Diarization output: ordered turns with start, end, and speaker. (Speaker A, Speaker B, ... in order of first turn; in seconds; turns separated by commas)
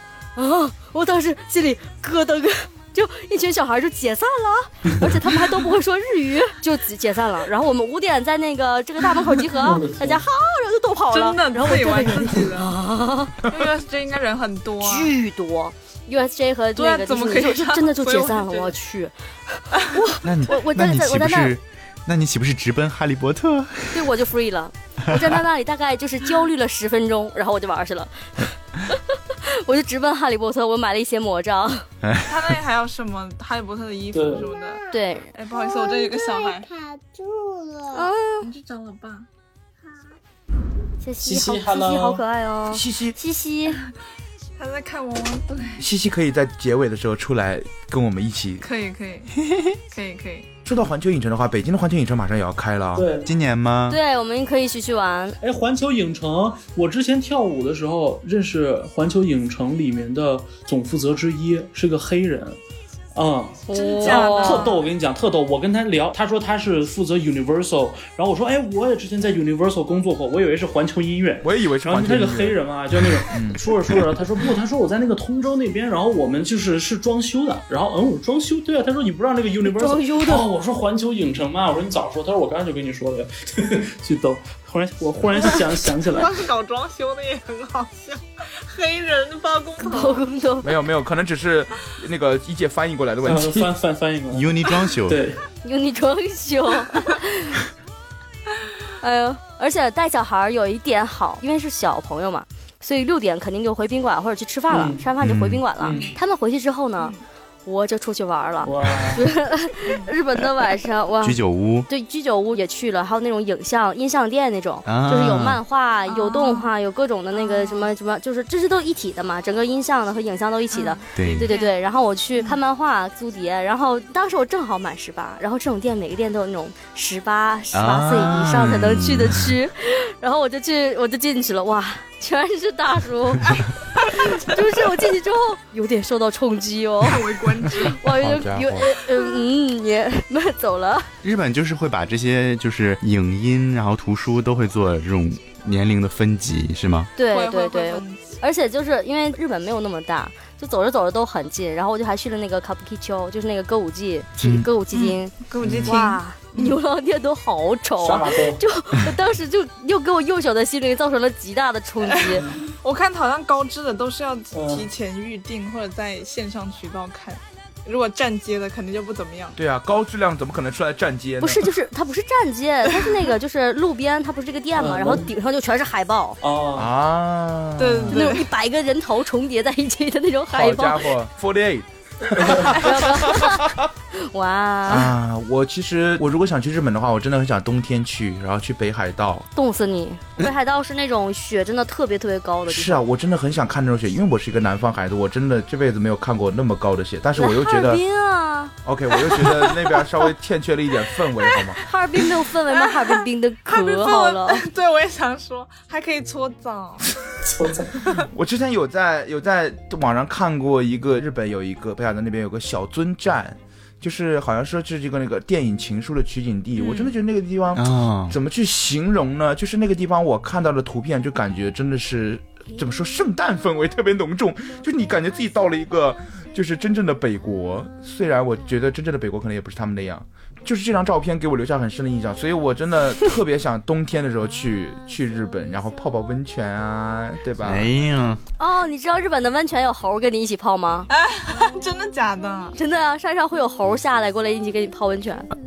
Speaker A: 0.4-13.4, Speaker B: 9.6-10.2, Speaker C: 11.1-12.7, Speaker C: 13.5-15.1, Speaker A: 14.8-21.6, Speaker C: 16.8-18.8, Speaker D: 20.2-24.1, Speaker A: 23.9-31.9, Speaker D: 25.1-25.4, Speaker D: 32.0-32.6, Speaker C: 32.2-34.8, Speaker B: 34.1-34.5, Speaker A: 34.9-35.3, Speaker C: 35.3-36.7, Speaker E: 35.5-38.1, Speaker A: 37.9-38.5, Speaker C: 38.4-39.3, Speaker A: 41.0-43.8, Speaker B: 41.2-42.2, Speaker F: 42.7-43.2, Speaker C: 44.6-45.8, Speaker F: 45.8-48.6, Speaker C: 48.6-50.5, Speaker F: 50.7-53.1, Speaker B: 53.0-53.3, Speaker D: 53.2-54.0, Speaker A: 53.9-55.4, Speaker B: 55.4-62.6, Speaker B: 63.1-86.3, Speaker A: 63.7-64.7, Speaker C: 63.8-64.9, Speaker F: 71.4-72.6, Speaker F: 73.3-73.6, Speaker A: 79.7-80.5, Speaker C: 86.1-90.2, Speaker A: 89.8-90.7, Speaker F: 90.6-93.7, Speaker B: 93.2-94.5, Speaker D: 94.3-95.2, Speaker B: 95.1-95.4, Speaker A: 95.6-97.6, Speaker A: 99.0-107.2, Speaker B: 104.7-105.0, Speaker D: 105.2-105.6, Speaker B: 105.8-106.1, Speaker A: 107.7-137.2, Speaker B: 108.6-109.3, Speaker D: 111.2-111.9, Speaker D: 114.9-115.6, Speaker C: 116.1-116.7, Speaker C: 117.3-117.9, Speaker C: 120.7-121.8, Speaker D: 121.2-121.5, Speaker D: 127.7-129.6, Speaker C: 137.0-138.1, Speaker A: 137.8-141.1, Speaker F: 138.2-138.9, Speaker D: 141.2-147.1, Speaker A: 147.2-162.4, Speaker C: 147.2-148.4, Speaker D: 154.4-154.7, Speaker C: 154.9-156.8, Speaker F: 155.6-155.9, Speaker B: 158.0-158.6, Speaker C: 162.1-169.6, Speaker B: 164.5-164.9, Speaker F: 169.6-171.7, Speaker A: 171.4-176.4, Speaker B: 174.8-175.3, Speaker B: 176.4-176.9, Speaker F: 176.8-178.3, Speaker C: 177.8-178.5, Speaker A: 178.1-181.1, Speaker F: 180.5-183.7, Speaker A: 182.7-185.1, Speaker F: 184.9-189.5, Speaker A: 189.6-193.0, Speaker F: 192.7-198.0, Speaker A: 197.4-198.7, Speaker F: 198.8-201.8, Speaker C: 201.4-207.1, Speaker A: 201.8-204.7, Speaker B: 207.4-208.1, Speaker C: 208.0-208.3, Speaker F: 208.3-237.9, Speaker C: 216.8-217.1, Speaker D: 217.7-218.4, Speaker D: 237.6-238.4, Speaker A: 238.6-241.1, Speaker C: 241.1-242.8, Speaker A: 242.8-245.5